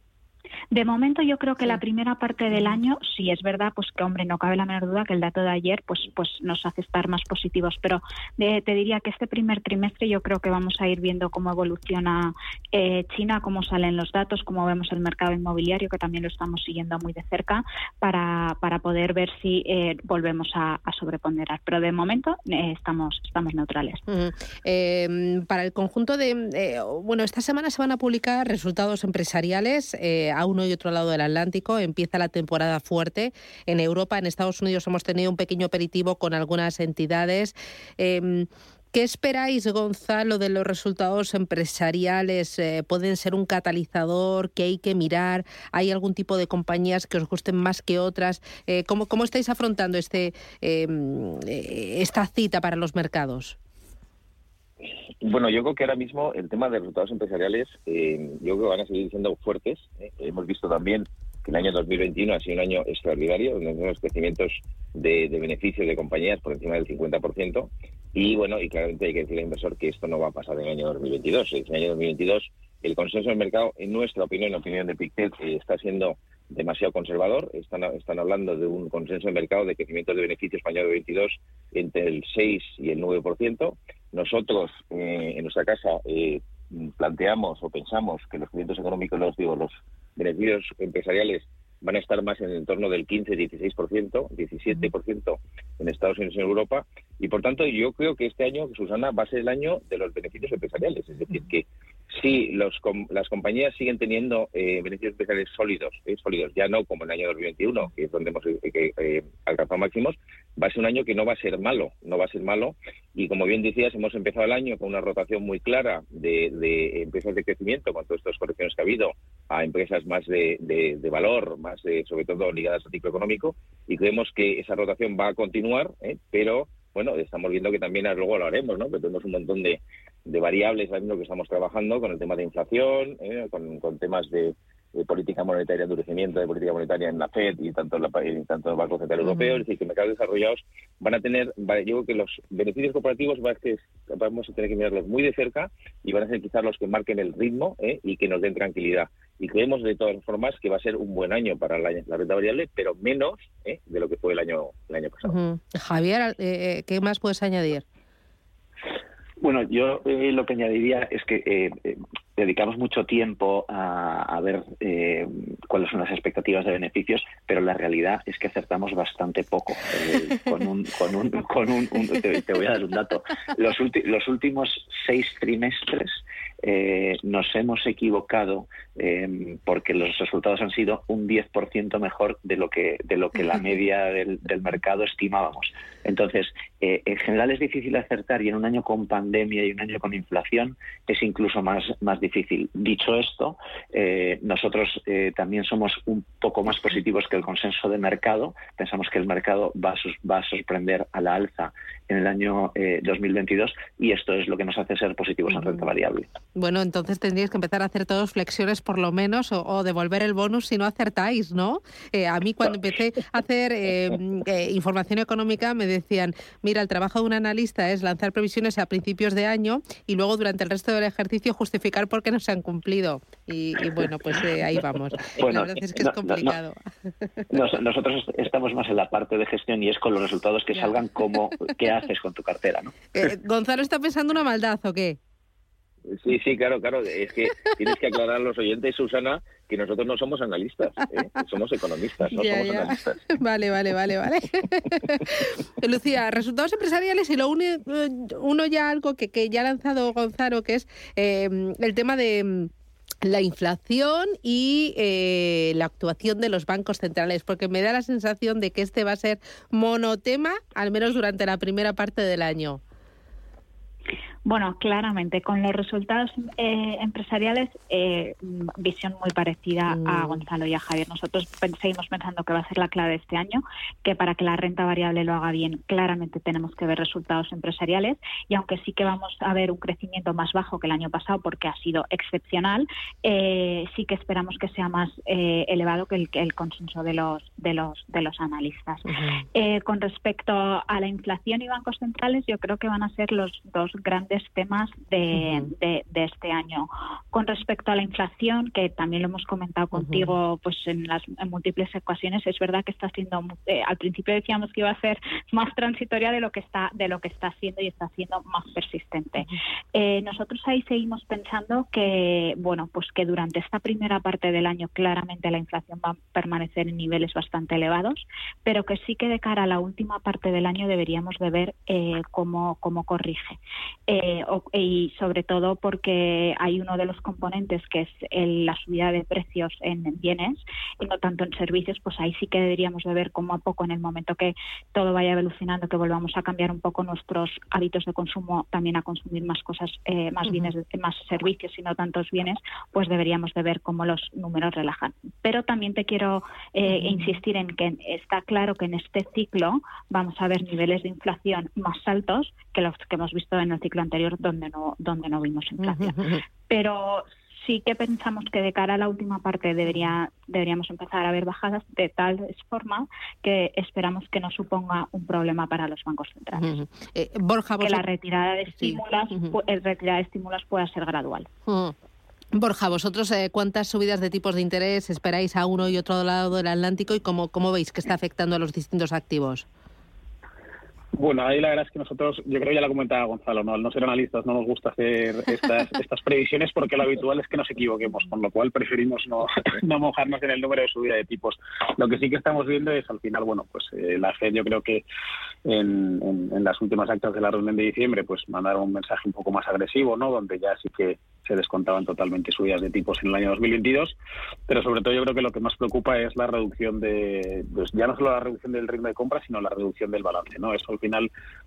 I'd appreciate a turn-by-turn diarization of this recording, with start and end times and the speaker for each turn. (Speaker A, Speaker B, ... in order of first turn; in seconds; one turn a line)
Speaker A: 0.7-24.0
Speaker B: 24.1-53.6
Speaker C: 55.2-155.4
Speaker B: 155.2-157.8
Speaker D: 159.4-206.3
Speaker B: 206.5-226.8
Speaker D: 225.4-226.5
Speaker D: 227.5-232.9
Speaker B: 233.1-235.2
Speaker C: 236.1-243.2
Speaker B: 242.3-252.7
Speaker B: 253.2-262.8
Speaker A: 264.4-366.7
Speaker B: 269.9-270.4
Speaker B: 346.9-347.1
Speaker B: 355.8-356.4
Speaker B: 366.6-368.0
Speaker A: 367.8-371.5
Speaker B: 368.8-369.4
Speaker B: 371.6-371.9
Speaker B: 372.5-379.6
Speaker E: 381.1-395.0
Speaker E: 395.6-404.2
Speaker E: 404.7-411.3